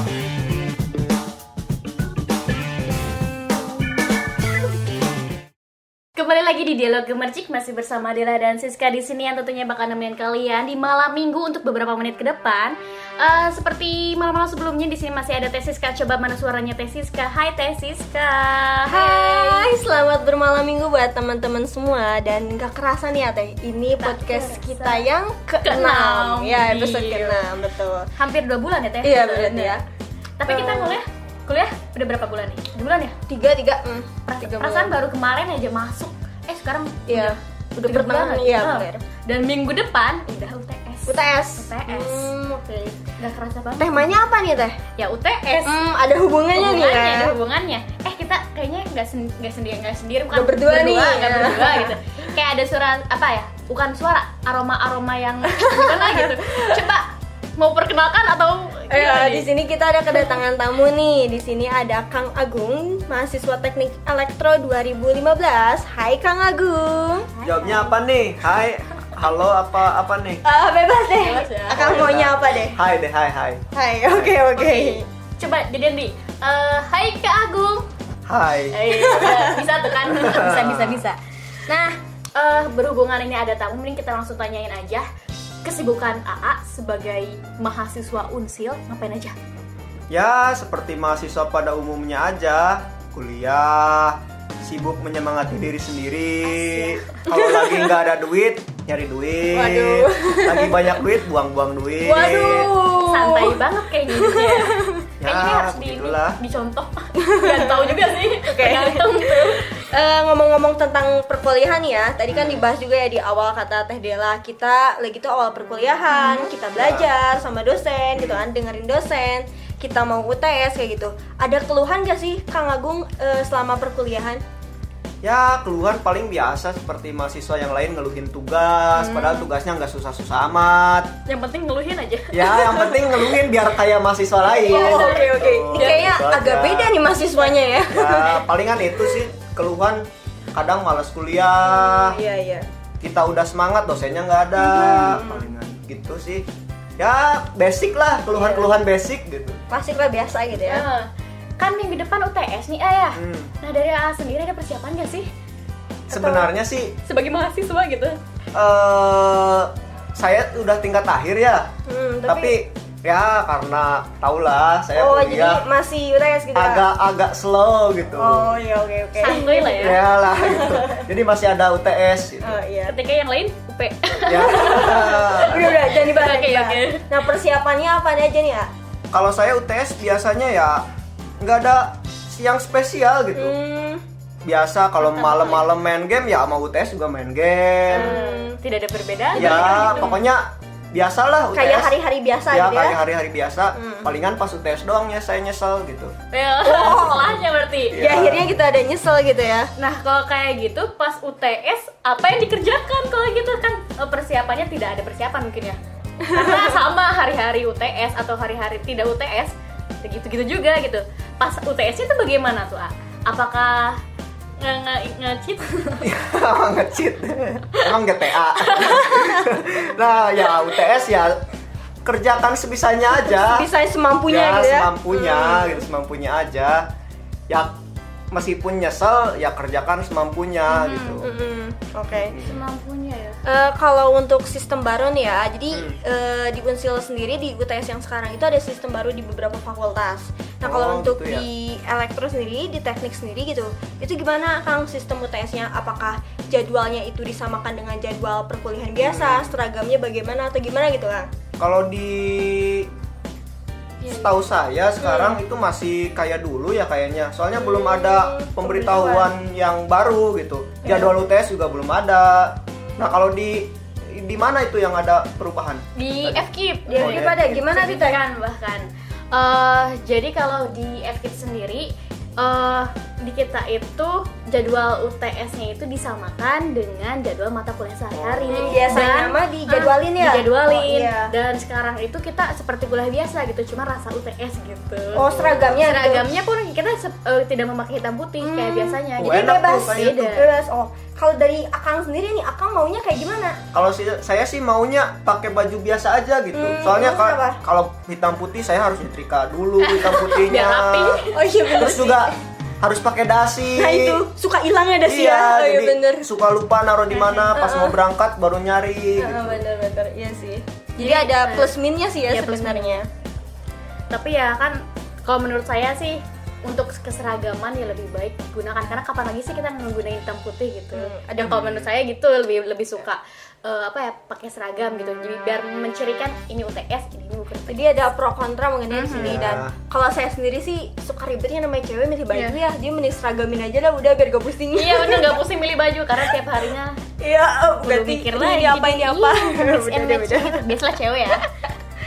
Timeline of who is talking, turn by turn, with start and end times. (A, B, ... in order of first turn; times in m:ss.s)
0:06.2-0:19.7 A
0:18.9-0:28.1 B
0:24.0-0:25.0 A
0:25.6-0:27.4 A
0:28.2-0:29.8 A
0:29.0-0:29.8 B
0:30.4-0:33.2 A
0:30.5-0:31.0 B
0:33.3-0:34.9 B
0:34.3-0:42.3 A
0:37.1-0:39.0 B
0:41.1-0:43.0 B
0:43.2-0:44.2 A
0:43.8-0:44.8 B
0:45.0-0:45.8 A
0:45.6-0:47.4 B
0:46.6-0:59.5 A
0:50.3-0:52.0 B
0:55.5-0:56.7 B
0:58.9-1:07.3 B
1:07.4-1:08.0 A
1:07.4-1:10.4 C
1:10.4-1:12.8 B
1:11.2-1:12.2 A
1:11.7-1:14.4 C
1:13.8-1:15.0 B
1:14.5-1:17.9 A
1:18.3-1:18.9 C
1:18.7-1:21.2 A
1:18.9-1:19.7 B
1:20.1-1:21.0 C
1:21.7-1:25.1 A
1:25.6-1:29.4 A
1:30.1-1:42.7 C
1:36.6-1:37.2 A
1:37.3-1:37.9 B
1:39.5-1:40.8 B
1:42.0-1:43.6 B
1:42.8-1:49.7 A
1:44.1-1:45.0 B
1:45.2-1:46.4 C
1:47.2-2:04.4 B
1:52.3-1:52.6 C
1:56.1-1:56.5 A
1:56.8-1:57.1 C
1:58.2-1:58.4 C
2:05.2-2:11.1 C
2:09.0-2:09.5 A
2:11.3-2:13.0 A
2:12.3-2:17.0 C
2:14.6-2:18.4 B
2:14.7-2:16.1 A
2:17.9-2:22.2 C
2:21.6-2:22.7 B
2:23.0-2:26.5 C
2:24.6-2:25.5 B
2:27.0-2:29.6 C
2:28.3-2:28.7 A
2:29.7-2:30.9 B
2:30.6-2:31.1 A
2:31.6-2:35.3 A
2:33.2-2:33.5 C
2:36.1-2:37.0 C
2:36.1-2:36.5 B
2:37.1-2:38.2 A
2:38.5-2:41.7 C
2:41.9-2:42.6 B
2:42.3-2:45.6 C
2:45.0-2:46.9 B
2:46.5-2:48.6 C
2:48.2-2:51.1 B
2:49.2-2:50.0 A
2:49.8-2:52.6 C
2:52.4-2:53.0 B
2:52.9-2:57.1 A
2:54.3-2:55.8 C
2:54.3-2:58.7 B
2:59.1-3:00.9 C
3:01.4-3:03.6 C
3:03.4-3:04.0 B
3:04.4-3:08.2 C
3:05.0-3:05.6 A
3:07.9-3:10.2 A
3:07.9-3:08.6 B
3:09.4-3:10.1 B
3:09.4-3:12.0 C
3:11.5-3:13.0 B
3:12.5-3:16.1 C
3:13.8-3:14.1 B
3:16.3-3:18.1 A
3:16.6-3:17.4 B
3:17.9-3:18.5 C
3:17.9-3:19.7 B
3:19.8-3:34.0 A
3:26.2-3:26.8 B
3:34.6-3:36.1 A
3:36.0-3:41.4 C
3:38.6-3:39.3 A
3:42.0-3:43.7 C
3:43.1-3:45.8 B
3:44.3-3:46.9 C
3:47.5-3:47.8 C
3:48.3-3:51.3 C
3:50.7-3:51.2 A
3:51.2-3:52.4 B
3:52.1-3:52.6 C
3:52.4-3:53.4 A
3:53.4-4:11.3 B
3:55.7-3:56.0 C
4:00.6-4:01.5 C
4:09.0-4:09.6 C
4:11.6-4:12.9 C
4:14.1-4:26.4 C
4:15.0-4:15.4 B
4:17.6-4:19.3 B
4:20.8-4:21.1 B
4:26.0-4:50.5 A
4:26.9-4:28.2 B
4:27.0-4:27.5 C
4:38.1-4:39.1 C
4:38.5-4:41.3 B
4:45.2-4:46.3 B
4:45.3-4:45.8 C
4:48.4-4:53.6 B
4:49.2-4:50.2 C
4:53.7-5:01.2 C
4:56.5-4:57.6 B
4:59.8-5:01.5 A
5:01.3-5:02.3 B
5:01.8-5:04.2 C
5:03.8-5:06.3 B
5:05.1-5:09.6 C
5:07.1-5:07.5 A
5:07.5-5:08.0 B
5:09.2-5:13.1 B
5:11.0-5:11.8 A
5:12.3-5:13.0 A
5:14.1-5:27.9 A
5:20.9-5:21.5 B
5:21.4-5:21.9 C
5:27.7-5:35.4 B
5:28.9-5:29.4 A
5:29.1-5:29.7 C
5:34.7-5:37.0 A
5:37.2-5:40.7 B
5:37.8-5:41.5 A